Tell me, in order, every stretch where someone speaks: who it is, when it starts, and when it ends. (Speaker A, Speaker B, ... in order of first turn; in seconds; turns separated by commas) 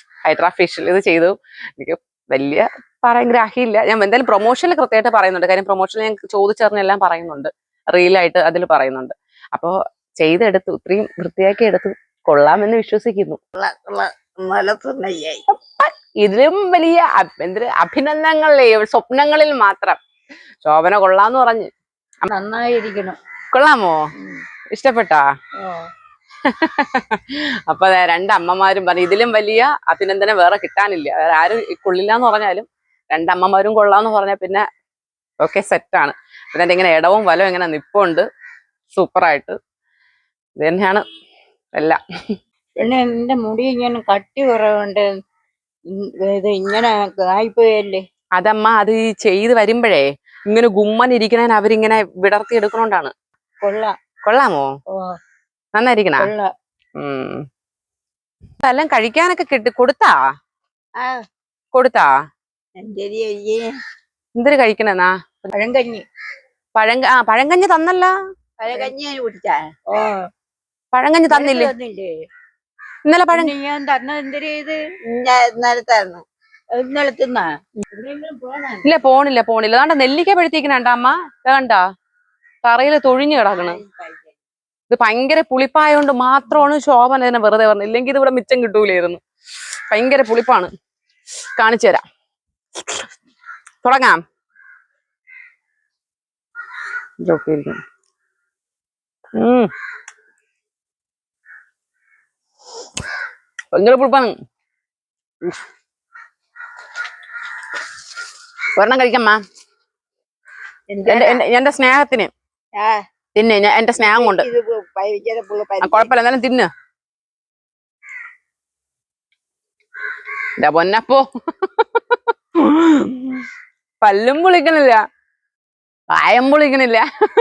Speaker A: 0.3-13.4, Speaker B: 13.6-15.4, Speaker A: 15.5-20.0, Speaker A: 20.6-21.7, Speaker C: 22.3-23.2, Speaker A: 23.5-24.0, Speaker C: 24.2-24.4, Speaker A: 24.7-25.2, Speaker C: 25.6-25.9, Speaker A: 26.4-34.6, Speaker A: 35.4-38.2, Speaker A: 39.0-39.6, Speaker A: 40.6-41.0, Speaker C: 42.8-45.1, Speaker C: 45.9-48.0, Speaker A: 48.4-53.1, Speaker C: 53.6-53.9, Speaker A: 54.2-54.7, Speaker A: 55.8-56.3, Speaker C: 56.2-56.5, Speaker A: 57.0-57.4, Speaker A: 58.6-60.1, Speaker A: 61.7-62.1, Speaker B: 62.8-63.7, Speaker A: 64.4-65.5, Speaker C: 65.5-66.0, Speaker A: 66.8-68.1, Speaker B: 68.6-69.7, Speaker C: 69.9-70.3, Speaker A: 70.9-71.7, Speaker C: 71.3-72.1, Speaker A: 73.1-73.5, Speaker C: 73.3-74.8, Speaker B: 75.1-76.2, Speaker C: 76.7-78.9, Speaker A: 78.8-81.8, Speaker A: 82.7-83.8, Speaker B: 83.6-84.3, Speaker A: 84.9-89.2, Speaker A: 89.9-90.7, Speaker A: 91.6-92.0, Speaker A: 93.8-94.2, Speaker A: 97.2-97.8, Speaker A: 99.4-99.7, Speaker A: 103.7-104.3, Speaker A: 108.8-109.4, Speaker B: 110.9-111.4, Speaker A: 111.1-112.3, Speaker B: 112.8-113.0, Speaker A: 113.4-114.5, Speaker B: 114.0-116.1, Speaker A: 115.8-116.7, Speaker A: 120.6-123.5, Speaker A: 124.0-125.0, Speaker A: 126.1-127.1